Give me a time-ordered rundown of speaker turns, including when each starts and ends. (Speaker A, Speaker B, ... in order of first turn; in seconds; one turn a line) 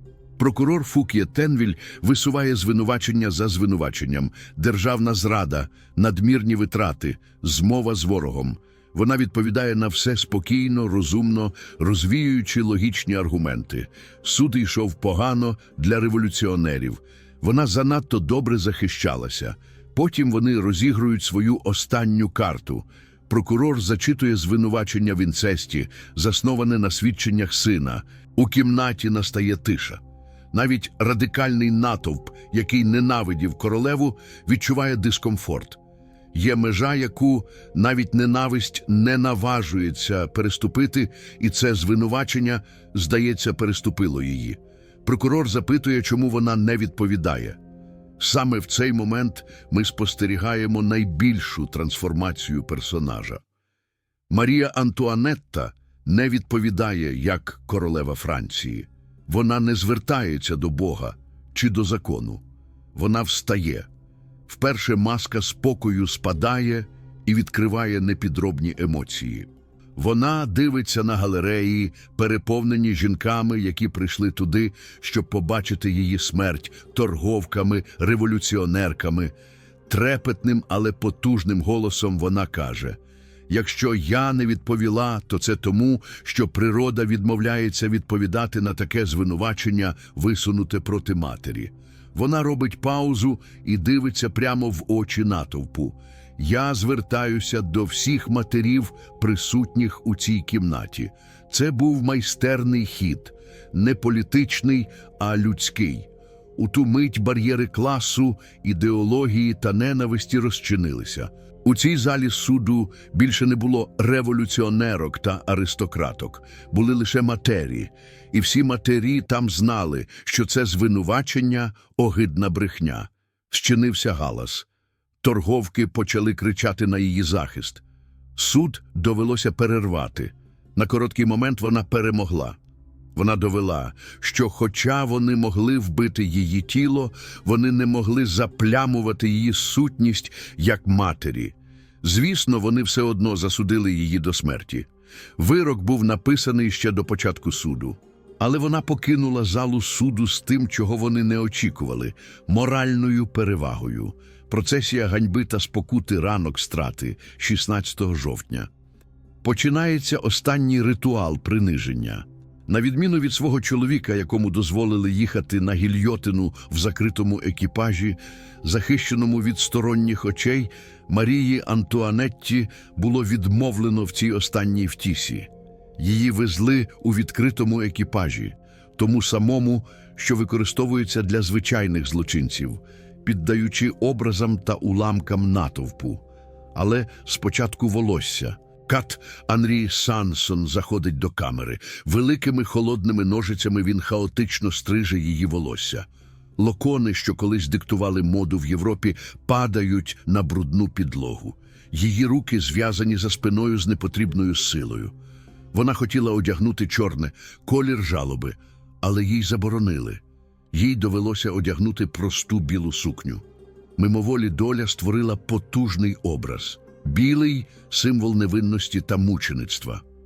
Speaker A: 0.4-30.0
Speaker A: 30.5-35.8
Speaker A: 36.3-47.6
Speaker A: 48.2-53.4
Speaker A: 54.3-62.4
Speaker A: 63.0-63.9
Speaker A: 64.5-79.3
Speaker A: 79.9-83.0
Speaker A: 83.5-124.7
Speaker A: 125.2-127.8
Speaker A: 128.4-132.6
Speaker A: 133.2-158.7
Speaker A: 159.4-186.2
Speaker A: 186.8-196.1
Speaker A: 196.6-205.1
Speaker A: 205.7-210.2
Speaker A: 210.7-213.4
Speaker A: 214.0-220.0